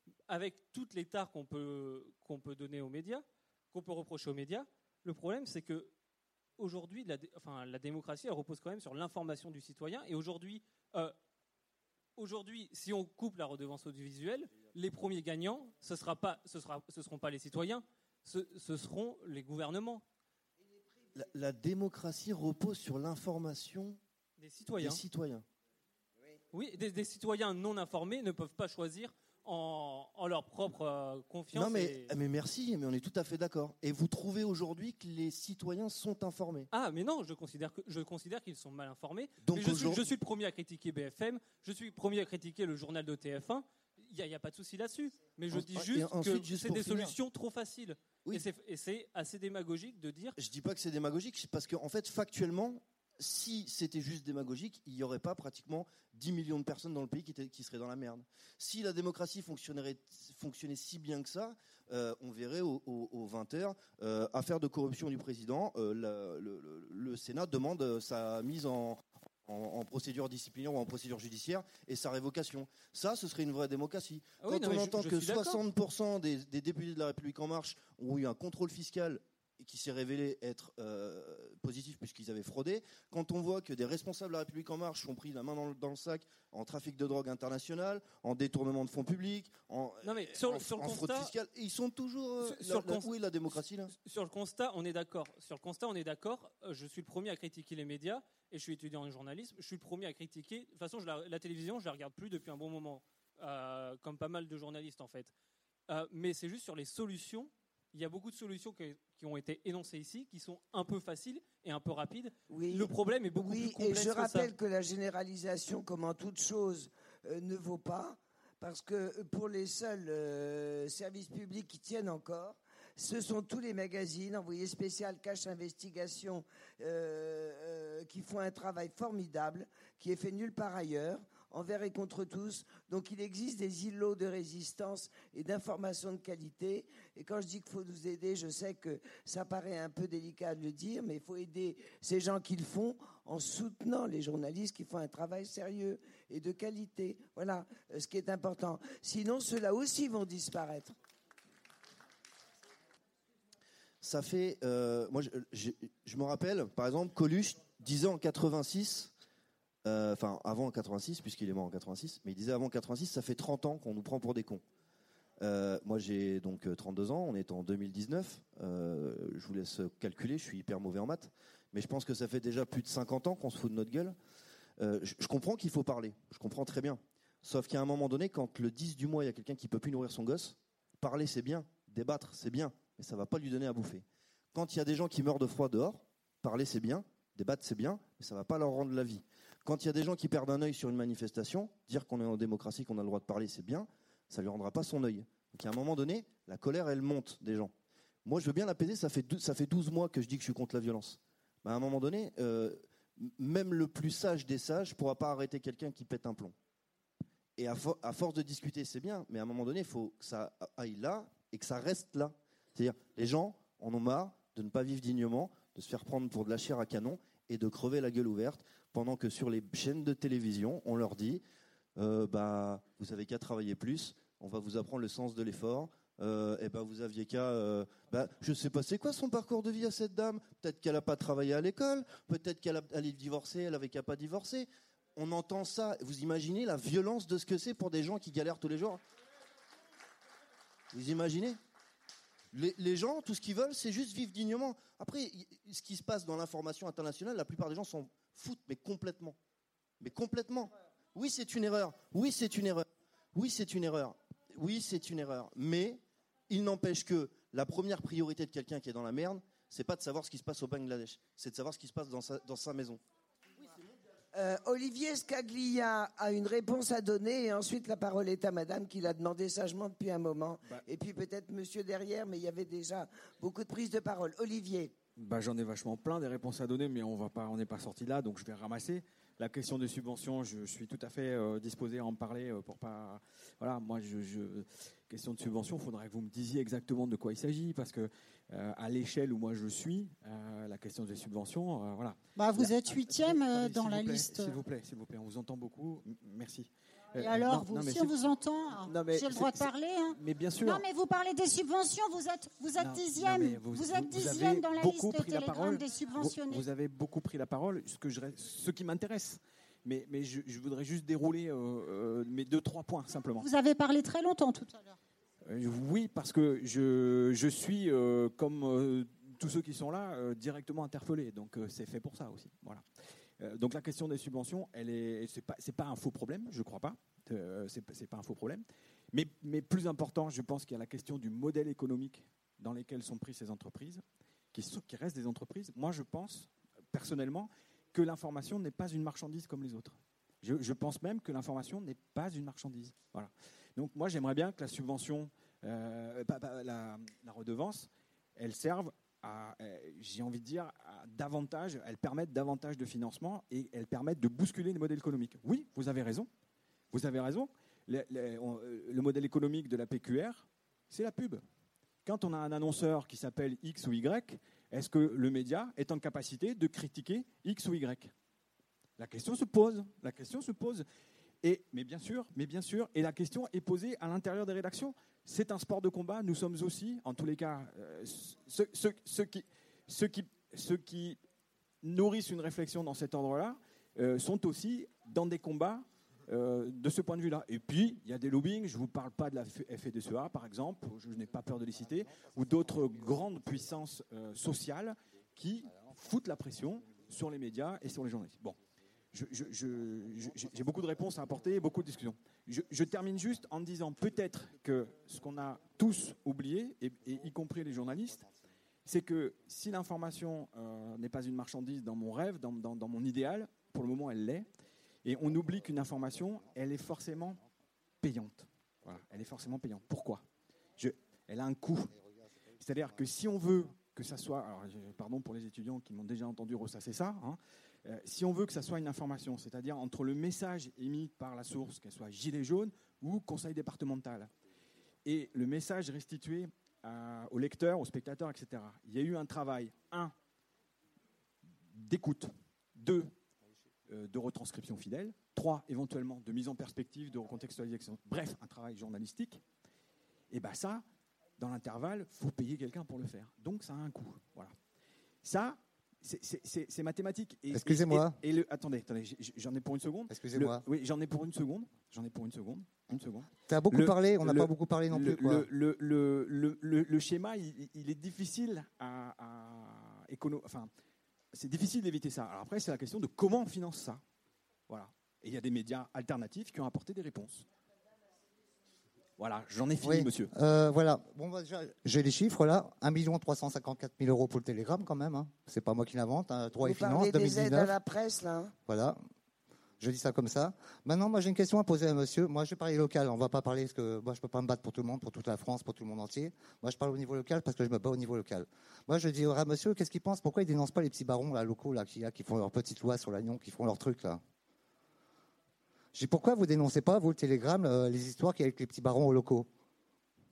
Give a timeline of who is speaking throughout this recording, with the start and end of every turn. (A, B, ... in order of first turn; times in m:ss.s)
0:00.3-0:05.9 A
0:06.6-0:11.2 A
0:12.2-0:20.0 A
0:21.2-0:24.0 B
0:24.4-0:25.0 A
0:24.8-0:25.5 B
0:26.5-0:32.2 A
0:31.5-0:36.7 B
0:36.7-0:50.4 A
0:39.4-0:40.1 B
0:45.5-0:47.2 B
0:50.4-1:33.9 B
1:14.4-1:15.6 A
1:30.0-1:31.3 A
1:32.4-1:33.1 A
1:34.0-1:45.3 A
1:45.9-1:54.5 A
1:52.5-2:31.0 C
2:34.0-2:39.1 B
2:39.8-2:44.6 B
2:45.4-2:54.2 B
2:54.8-3:17.7 B
3:18.2-3:26.6 B
3:27.6-3:41.4 B
3:42.0-3:59.0 B
4:00.9-4:01.6 B
4:02.5-4:09.4 B
4:10.0-4:23.0 B
4:24.3-4:34.9 C
4:35.2-5:00.8 D
4:52.4-4:54.6 E
4:57.2-5:06.6 E
5:02.8-5:13.5 D
5:13.4-5:15.0 E
5:15.4-5:22.8 D
5:23.4-5:56.3 D
5:56.9-6:01.4 D
6:02.0-6:08.1 D
6:09.0-6:10.8 D
6:11.4-6:21.2 D
6:21.8-6:38.6 D
6:39.1-6:48.3 D
6:48.8-6:54.5 D
6:55.0-6:57.4 D
6:58.0-7:00.2 D
7:00.8-7:02.0 D
7:02.6-7:14.3 D
7:15.0-7:20.2 D
7:21.6-7:23.1 D
7:23.9-7:29.4 D
7:30.3-7:30.8 D
7:31.4-7:34.6 D
7:35.2-7:50.7 D
7:37.5-7:38.2 F
7:40.1-7:40.6 F
7:43.5-7:45.5 F
7:51.3-7:54.0 D
7:54.7-7:57.5 D
7:59.2-8:00.3 D
7:59.8-8:07.8 F
8:06.6-8:08.5 C
8:08.7-8:09.0 F
8:09.8-8:24.2 F
8:25.9-8:29.5 F